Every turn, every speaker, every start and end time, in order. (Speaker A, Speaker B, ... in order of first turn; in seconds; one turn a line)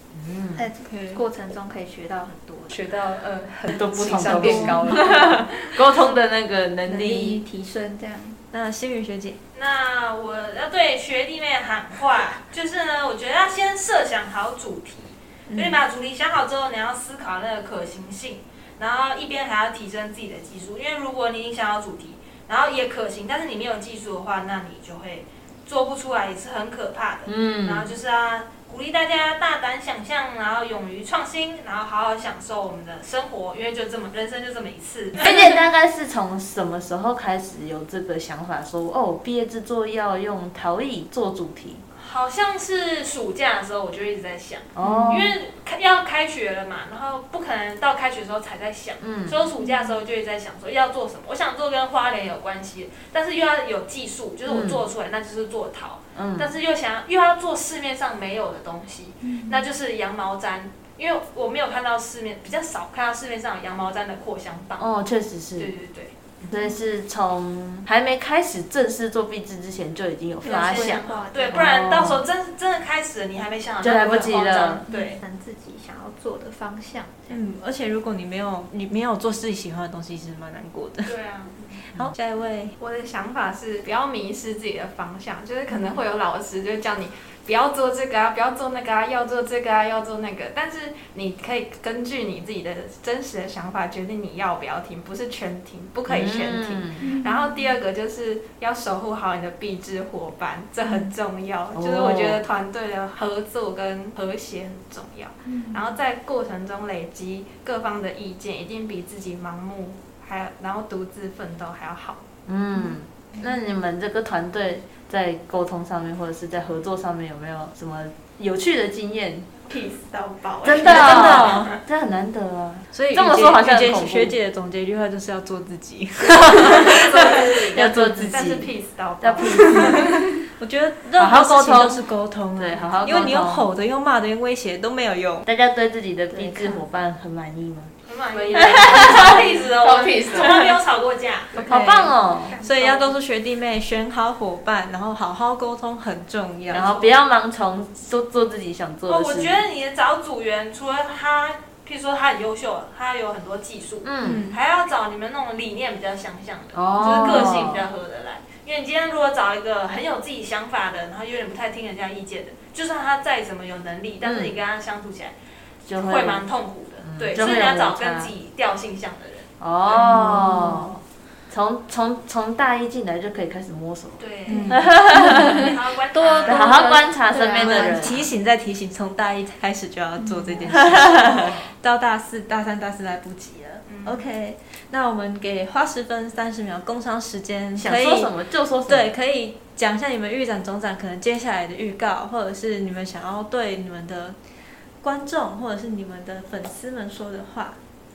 Speaker A: 0.1-0.7
Speaker B: 0.6-2.8
Speaker C: 0.8-1.2
Speaker D: 2.7-5.5
Speaker A: 3.7-7.4
Speaker B: 4.1-5.4
Speaker B: 6.9-8.4
Speaker C: 8.5-9.4
Speaker E: 9.5-35.6
Speaker C: 15.5-15.8
Speaker A: 27.3-27.9
Speaker A: 35.2-41.8
Speaker E: 42.0-64.9
Speaker A: 44.8-45.4
Speaker C: 44.8-45.1
Speaker A: 49.0-49.4
Speaker B: 49.6-50.0
Speaker A: 54.5-54.8
Speaker A: 56.1-56.5
Speaker B: 59.2-59.6
Speaker A: 64.8-65.7
Speaker E: 65.6-66.2
Speaker A: 66.5-72.2
Speaker B: 66.5-66.8
Speaker B: 70.4-72.1
Speaker E: 70.4-75.2
Speaker A: 73.8-74.8
Speaker B: 74.9-77.4
Speaker C: 77.3-81.2
Speaker E: 81.0-81.8
Speaker C: 81.9-82.7
Speaker F: 82.8-112.3
Speaker A: 96.1-97.1
Speaker B: 97.0-97.6
Speaker A: 101.7-102.4
Speaker B: 105.5-105.9
Speaker A: 112.5-119.6
Speaker F: 119.7-121.8
Speaker A: 120.6-124.3
Speaker C: 120.7-121.7
Speaker C: 122.9-127.5
Speaker A: 126.6-130.4
Speaker F: 126.7-130.3
Speaker C: 129.7-135.5
Speaker A: 131.2-133.7
Speaker A: 135.5-137.9
Speaker B: 136.3-136.8
Speaker E: 138.1-141.7
Speaker D: 138.3-140.7
Speaker A: 138.6-139.5
Speaker F: 141.5-142.9
Speaker A: 141.7-142.6
Speaker C: 141.7-147.0
Speaker E: 142.6-143.1
Speaker A: 146.7-149.6
Speaker E: 149.1-165.3
Speaker A: 154.0-154.4
Speaker C: 154.2-154.6
Speaker A: 156.7-157.8
Speaker C: 157.2-157.6
Speaker A: 164.2-164.6
Speaker A: 165.8-166.5
Speaker E: 165.9-170.0
Speaker A: 167.0-168.3
Speaker A: 169.6-175.7
Speaker C: 170.0-170.9
Speaker E: 174.2-177.1
Speaker C: 174.5-188.3
Speaker A: 176.4-178.3
Speaker B: 177.3-178.2
Speaker A: 180.7-181.6
Speaker E: 183.9-184.2
Speaker A: 187.8-189.1
Speaker C: 188.9-194.4
Speaker C: 195.0-197.8